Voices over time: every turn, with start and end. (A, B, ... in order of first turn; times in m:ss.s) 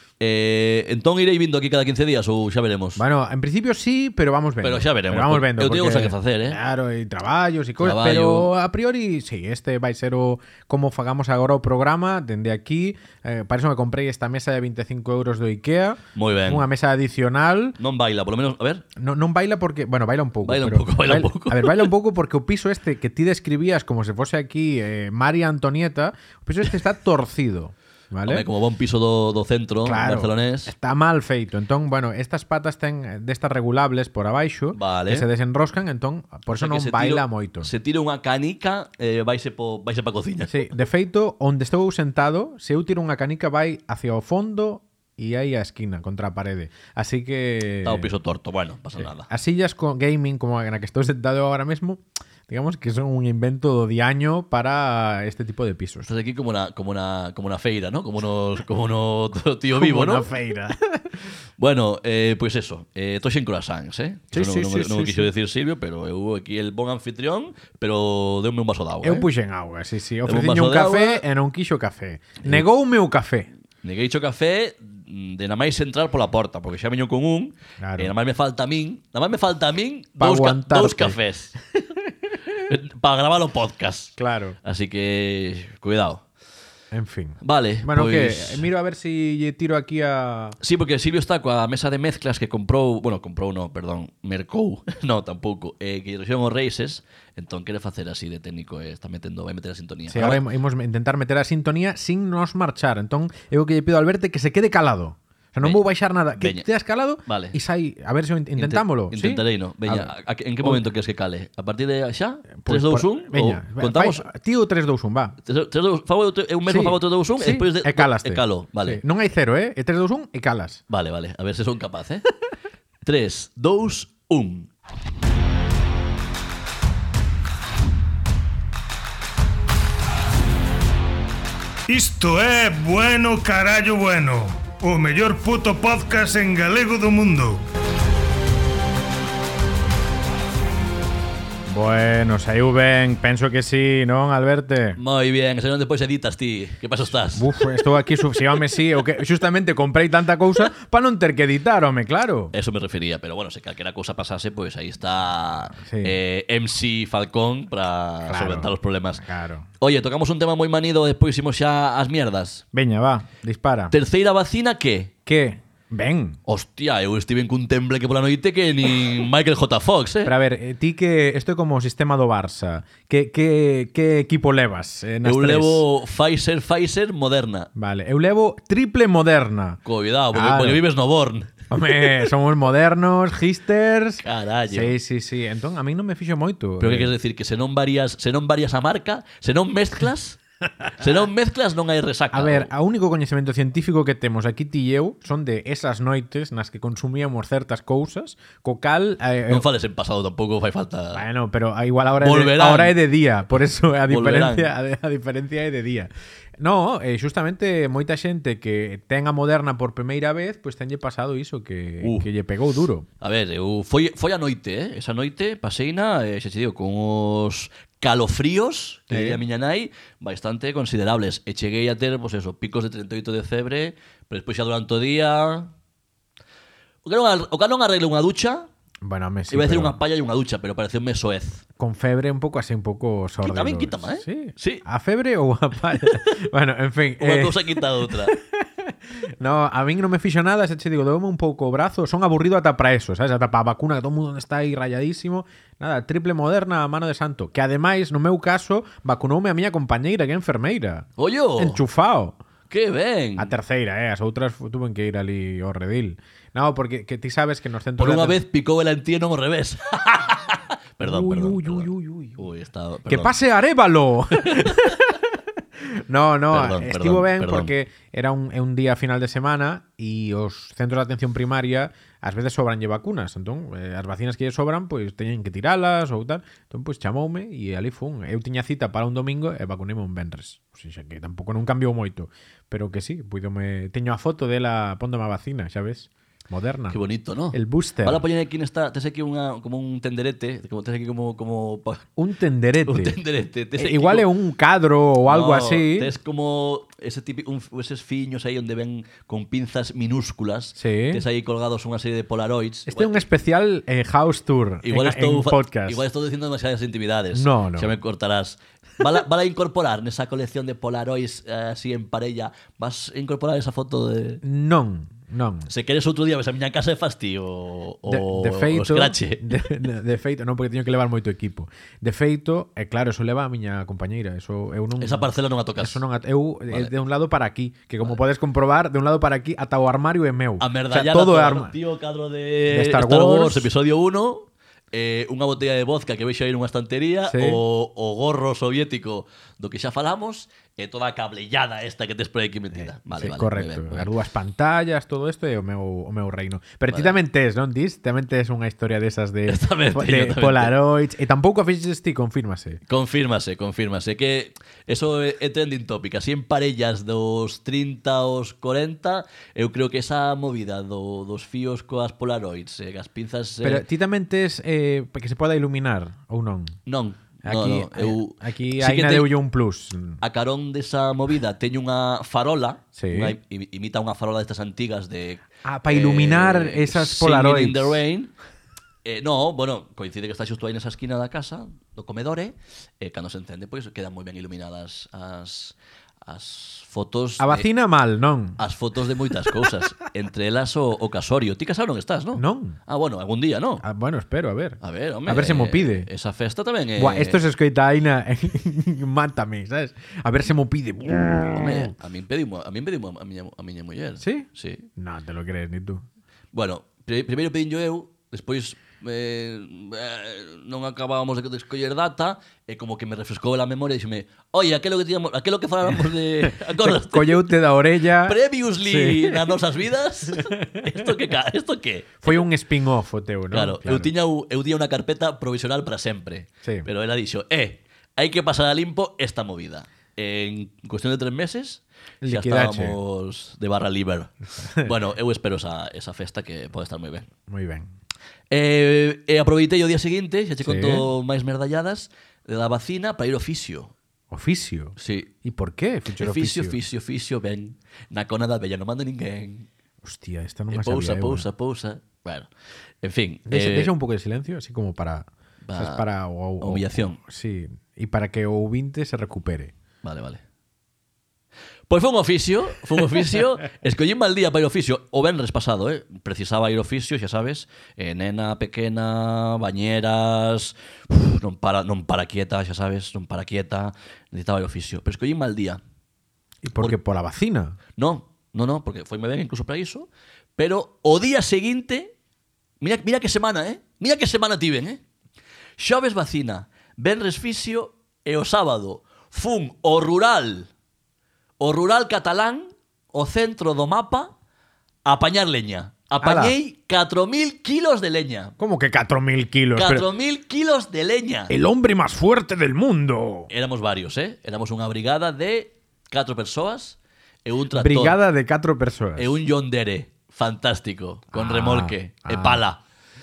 0:00.2-0:03.0 A
0:03.0-0:17.8 B
0:04.6-0:06.6 A
0:07.8-0:08.5 A
0:16.1-0:16.7 A
0:17.8-0:18.8 A
0:19.0-0:28.5 B
0:20.4-0:21.9 A
0:28.2-0:30.7 A
0:29.8-0:37.7 B
0:34.7-0:35.2 A
0:36.5-0:40.7 A
0:40.5-0:48.1 B
0:47.8-0:49.3 A
0:49.0-0:56.1 B
0:56.0-1:00.3 A
0:59.7-1:01.3 B
1:01.6-1:09.3 A
1:04.3-1:05.3 B
1:09.0-1:13.5 B
1:10.2-1:11.2 A
1:13.8-1:21.6 A
1:17.8-1:18.1 B
1:20.2-1:21.2 B
1:22.6-1:26.2 A
1:24.2-1:24.6 B
1:26.9-1:30.6 B
1:27.4-1:28.6 A
1:30.6-1:40.4 A
1:40.1-1:50.1 B
1:46.4-1:46.6 A
1:47.3-1:47.6 A
1:48.6-1:54.3 A
1:52.6-1:55.4 B
1:55.4-1:59.0 A
1:56.6-2:00.8 B
2:00.9-2:02.2 A
2:03.0-2:04.7 A
2:11.9-2:17.6 C
2:21.7-2:25.0 B
2:25.0-2:27.5 A
2:27.3-2:32.5 B
2:32.5-2:39.2 A
2:35.8-2:36.2 B
2:38.2-2:39.7 B
2:39.8-2:42.6 A
2:42.7-2:43.9 B
2:43.9-2:45.1 A
2:45.2-2:46.4 B
2:46.4-2:50.3 A
2:50.2-2:55.8 B
2:55.2-2:57.7 A
2:57.7-2:59.8 B
2:59.8-3:02.1 A
3:00.3-3:00.8 B
3:01.7-3:07.1 B
3:04.2-3:04.9 A
3:06.8-3:10.4 A
3:11.0-3:12.7 A
3:12.3-3:19.6 B
3:19.5-3:21.2 A
3:21.1-3:33.1 B
3:22.2-3:23.0 A
3:24.1-3:24.7 A
3:32.0-3:32.3 A
3:33.2-3:45.7 A
3:39.1-3:39.4 B
3:47.0-3:48.7 A
3:49.0-3:50.0 B
3:49.5-3:51.6 A
3:51.8-4:12.4 B
3:53.4-3:54.8 A
3:57.2-3:58.3 A
4:11.2-4:11.8 A
4:12.7-4:13.5 A
4:13.4-4:18.4 B
4:18.0-4:21.9 A
4:21.0-4:22.4 B
4:22.4-4:23.4 A
4:23.1-4:25.2 B
4:24.4-4:24.9 A
4:25.8-4:47.0 B
4:26.5-4:27.7 A
4:46.9-4:52.1 A
4:47.5-4:48.2 B
4:52.2-4:53.2 B
4:52.8-4:54.3 A
4:53.8-4:56.1 B
4:55.2-5:03.3 A
5:00.8-5:01.2 B
5:02.9-5:06.0 B
5:04.8-5:14.4 A
5:07.3-5:07.9 B
5:14.4-5:15.7 B
5:15.7-5:19.4 A
5:18.0-5:31.7 B
5:25.0-5:26.0 A
5:30.6-5:44.1 A
5:32.7-5:33.7 B
5:37.2-5:37.6 B
5:42.8-5:52.8 B
5:46.9-5:47.2 A
5:49.5-5:50.7 A
5:52.9-6:03.8 A
6:03.6-6:06.8 B
6:06.9-6:09.3 A
6:07.4-6:10.2 B
6:10.2-6:18.3 A
6:12.9-6:13.4 B
6:15.6-6:18.0 B
6:19.0-6:27.7 A
6:27.4-6:28.6 B
6:28.6-6:33.8 A
6:29.3-6:29.7 B
6:32.3-6:32.8 B
6:33.8-6:36.1 B
6:34.8-6:37.4 A
6:37.0-6:41.9 B
6:41.5-6:44.9 A
6:44.2-6:46.0 B
6:46.5-6:57.6 A
6:56.4-6:59.5 B
6:58.1-7:02.5 A
7:00.3-7:01.1 B
7:02.2-7:04.1 B
7:03.5-7:17.3 A
7:12.2-7:13.0 B
7:14.6-7:14.9 B
7:17.5-7:17.9 B
7:18.5-7:23.9 A
7:20.6-7:21.1 B
7:24.3-7:26.8 B
7:25.0-7:25.3 A
7:26.2-7:29.7 A
7:30.0-7:31.5 B
7:30.7-7:32.5 A
7:33.0-7:33.9 A
7:33.5-7:39.7 B
7:35.7-7:36.0 A
7:36.6-7:37.2 A
7:40.0-7:40.4 A
7:41.9-7:55.8 A
7:56.6-7:57.8 B
7:58.0-8:02.1 A
8:02.8-8:05.0 A
8:05.8-8:10.7 A
8:11.6-8:14.3 A
8:15.0-8:18.5 A
8:16.2-8:16.5 B
8:18.6-8:20.1 B
8:19.8-8:21.5 A
8:21.5-8:23.5 B
8:23.5-8:28.2 A
8:27.7-8:29.4 B
8:29.2-8:32.8 A
8:31.3-8:32.6 B